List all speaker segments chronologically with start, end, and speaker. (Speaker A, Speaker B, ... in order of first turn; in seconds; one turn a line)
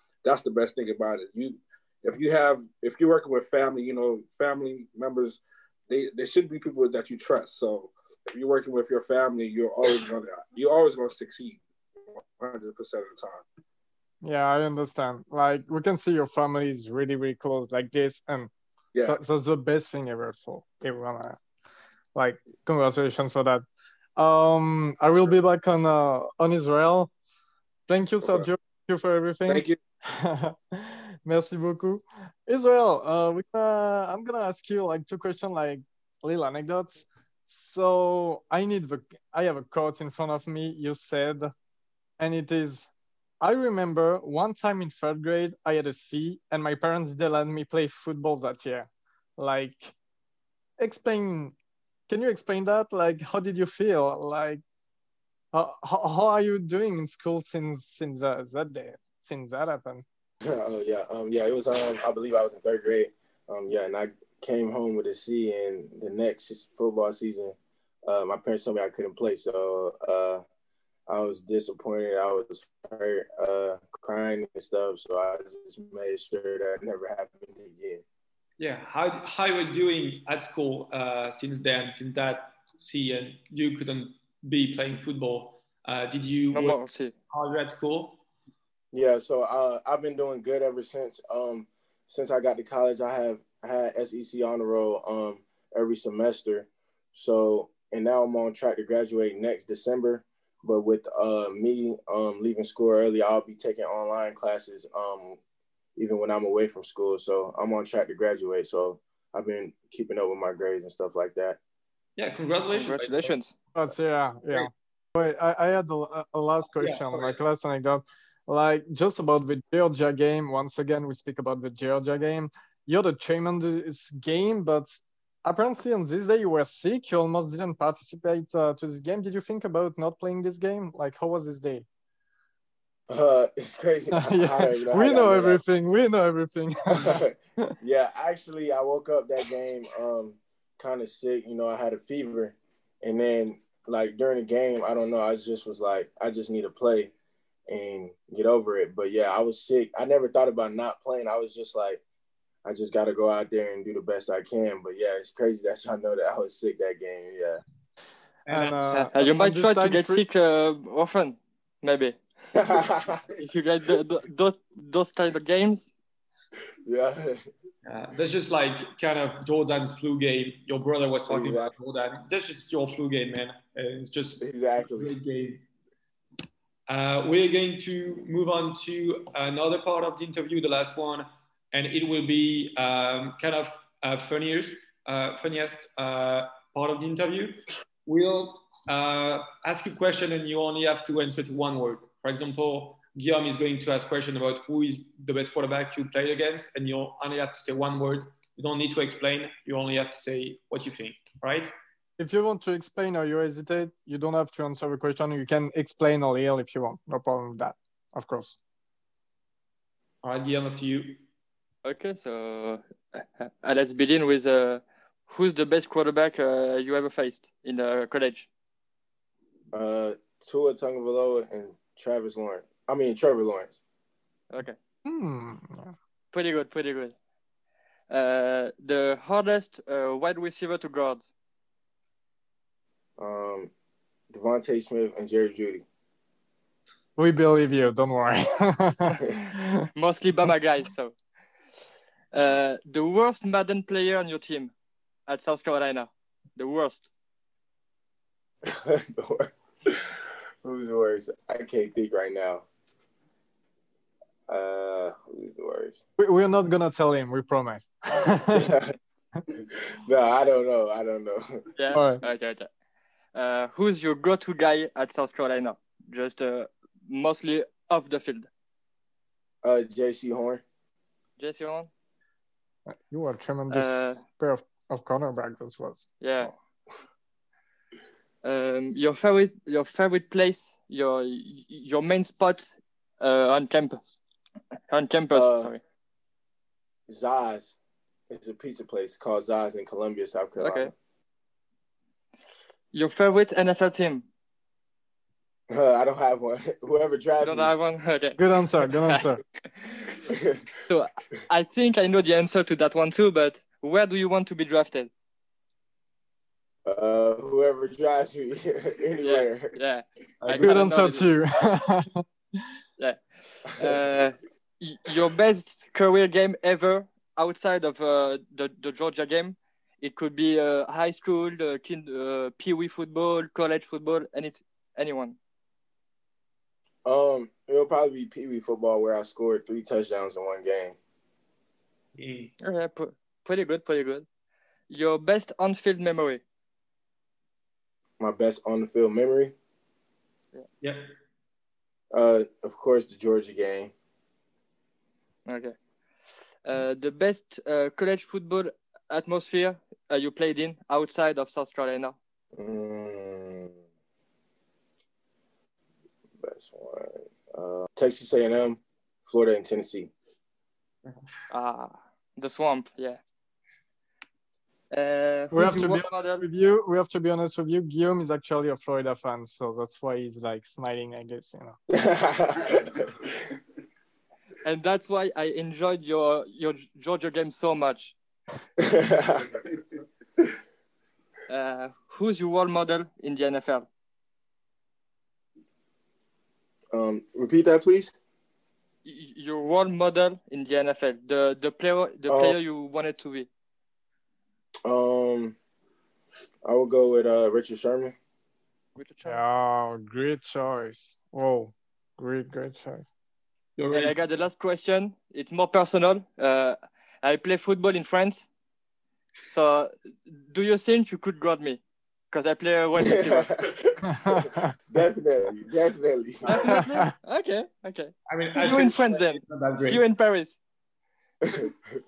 Speaker A: 0.2-13.4
Speaker B: 14.2-18.5
Speaker B: 19.0-21.4
Speaker B: 22.1-23.6
Speaker B: 24.2-27.1
Speaker B: 27.9-41.5
Speaker A: 29.5-29.8
Speaker B: 42.2-42.9
Speaker B: 43.4-49.9
Speaker B: 50.8-51.5
Speaker B: 52.1-54.6
Speaker B: 55.5-60.0
Speaker C: 60.4-70.4
Speaker C: 71.1-78.0
Speaker D: 78.6-86.8
Speaker E: 86.5-87.1
Speaker D: 87.3-88.2
Speaker C: 88.9-105.4
Speaker C: 106.0-111.6
Speaker D: 112.2-113.3
Speaker E: 112.7-113.5
Speaker B: 113.7-131.8
Speaker D: 116.8-117.4
Speaker C: 133.1-135.6
Speaker B: 134.1-137.7
Speaker C: 136.9-147.1
Speaker C: 147.7-152.0
Speaker C: 152.6-157.6
Speaker D: 158.5-158.8
Speaker B: 158.5-160.2
Speaker E: 158.9-162.2
Speaker C: 162.5-163.2
Speaker E: 163.4-165.9
Speaker C: 166.8-167.4
Speaker D: 167.8-175.6
Speaker C: 171.3-171.7
Speaker C: 174.4-175.2
Speaker D: 176.9-201.7
Speaker B: 202.2-208.6
Speaker D: 210.2-211.2
Speaker E: 211.8-218.5
Speaker C: 219.7-223.8
Speaker E: 224.5-224.8
Speaker B: 225.1-225.9
Speaker E: 226.3-227.1
Speaker E: 228.1-231.2
Speaker C: 233.2-233.7
Speaker C: 234.3-235.8
Speaker B: 237.2-239.9
Speaker E: 239.9-241.1
Speaker E: 242.3-244.7
Speaker E: 245.3-247.1
Speaker C: 248.6-252.6
Speaker C: 254.5-256.0
Speaker B: 256.2-258.8
Speaker C: 258.5-258.9
Speaker C: 259.5-261.6
Speaker E: 261.8-262.7
Speaker B: 261.9-262.2
Speaker E: 263.3-268.5
Speaker C: 269.6-270.6
Speaker E: 271.4-271.9
Speaker B: 272.9-276.5
Speaker E: 273.7-274.2
Speaker E: 276.2-276.5
Speaker E: 278.4-284.1
Speaker E: 284.9-285.8
Speaker C: 285.3-285.7
Speaker C: 287.1-287.7
Speaker C: 288.3-290.9
Speaker E: 290.6-290.9
Speaker E: 292.9-294.2
Speaker C: 295.7-297.7
Speaker E: 297.4-300.1
Speaker B: 298.4-299.4
Speaker C: 300.3-300.6
Speaker E: 300.9-305.1
Speaker C: 306.9-309.8
Speaker E: 309.2-311.3
Speaker D: 310.4-310.8
Speaker B: 310.6-312.2
Speaker E: 313.0-325.4
Speaker C: 327.0-330.9
Speaker D: 332.1-332.5
Speaker E: 332.6-334.2
Speaker E: 334.9-336.4
Speaker C: 338.2-339.5
Speaker D: 340.8-341.1
Speaker C: 342.1-343.9
Speaker E: 345.5-345.7
Speaker E: 346.6-352.1
Speaker C: 352.5-353.8
Speaker C: 356.4-360.1
Speaker E: 361.5-363.2
Speaker E: 364.9-366.4
Speaker B: 365.5-371.8
Speaker C: 371.9-373.3
Speaker E: 374.6-378.1
Speaker C: 378.8-379.6
Speaker E: 381.5-383.9
Speaker C: 386.9-388.1
Speaker E: 389.0-393.5
Speaker C: 392.3-392.6
Speaker C: 394.8-395.6
Speaker C: 396.6-398.1
Speaker E: 398.9-399.4
Speaker B: 399.2-403.1
Speaker D: 403.8-404.1
Speaker E: 403.9-408.5
Speaker E: 409.5-413.5
Speaker C: 413.0-416.9
Speaker B: 414.2-414.7
Speaker E: 416.4-420.6
Speaker B: 416.8-417.1
Speaker D: 418.3-420.0
Speaker C: 421.4-421.7